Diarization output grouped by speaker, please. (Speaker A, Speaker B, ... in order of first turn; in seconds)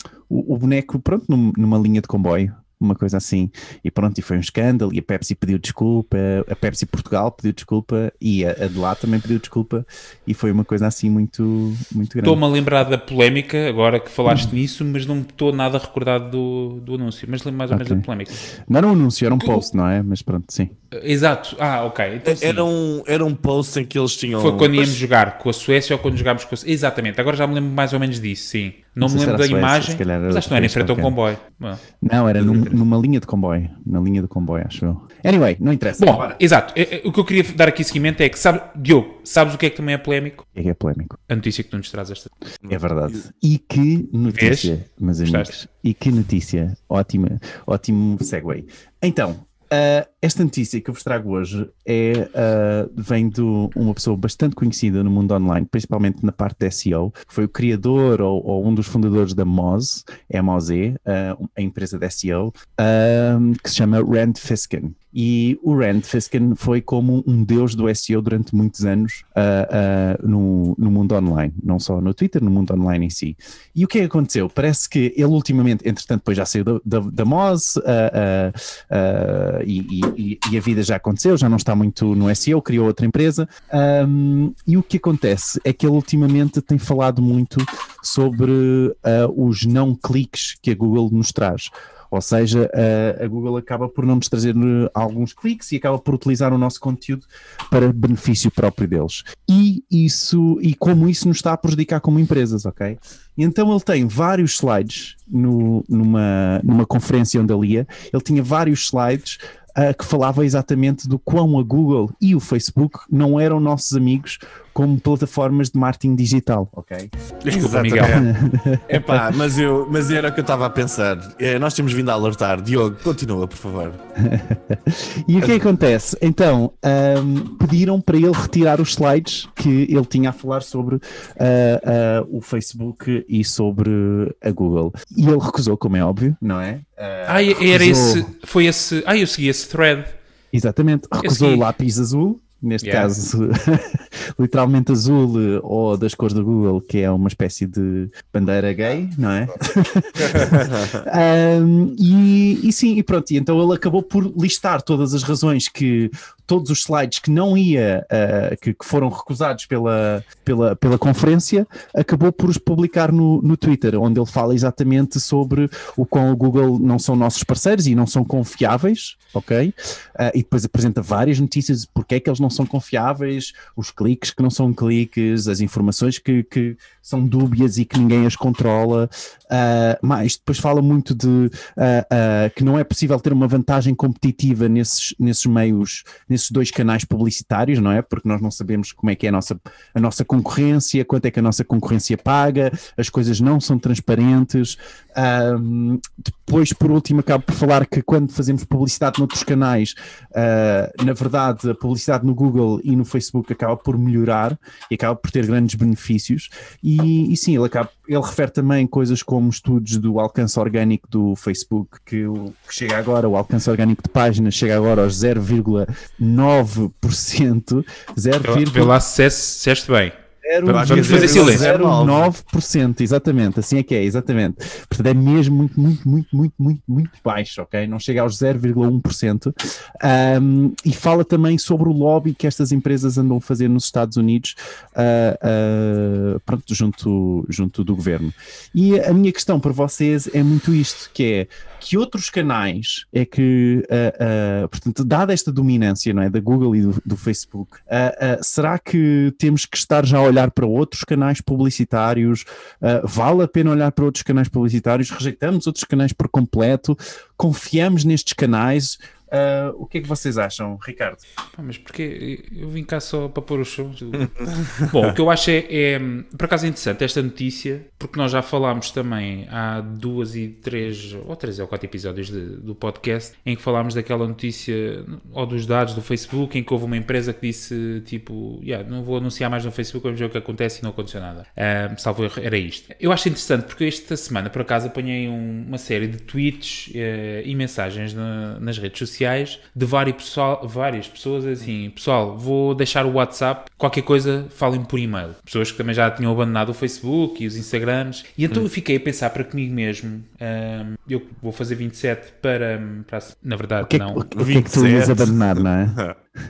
Speaker A: 0.3-12.4, 14.3-14.5, 17.7-18.1, 18.6-20.7, 29.0-31.1, 32.0-36.2, 40.5-41.2, 42.7-117.1, 118.0-119.2, 124.2-138.3, 140.5-218.9, 220.4-261.2, 303.8-306.4
Speaker B: 12.2-18.4, 19.4-19.7, 20.9-22.7, 24.4-31.8, 36.0-40.4, 41.3-42.3, 44.3-44.7, 45.2-45.5, 117.5-118.2, 137.3-140.1, 141.2-141.6, 142.8-143.1, 218.4-220.1, 220.7-221.6, 261.6-264.3, 264.9-304.2
Speaker C: 22.2-25.0, 32.4-32.8, 36.0-36.4, 42.7-43.2, 117.4-118.3, 118.9-124.0, 150.3-151.0, 220.7-222.3, 264.2-265.1, 304.3-306.1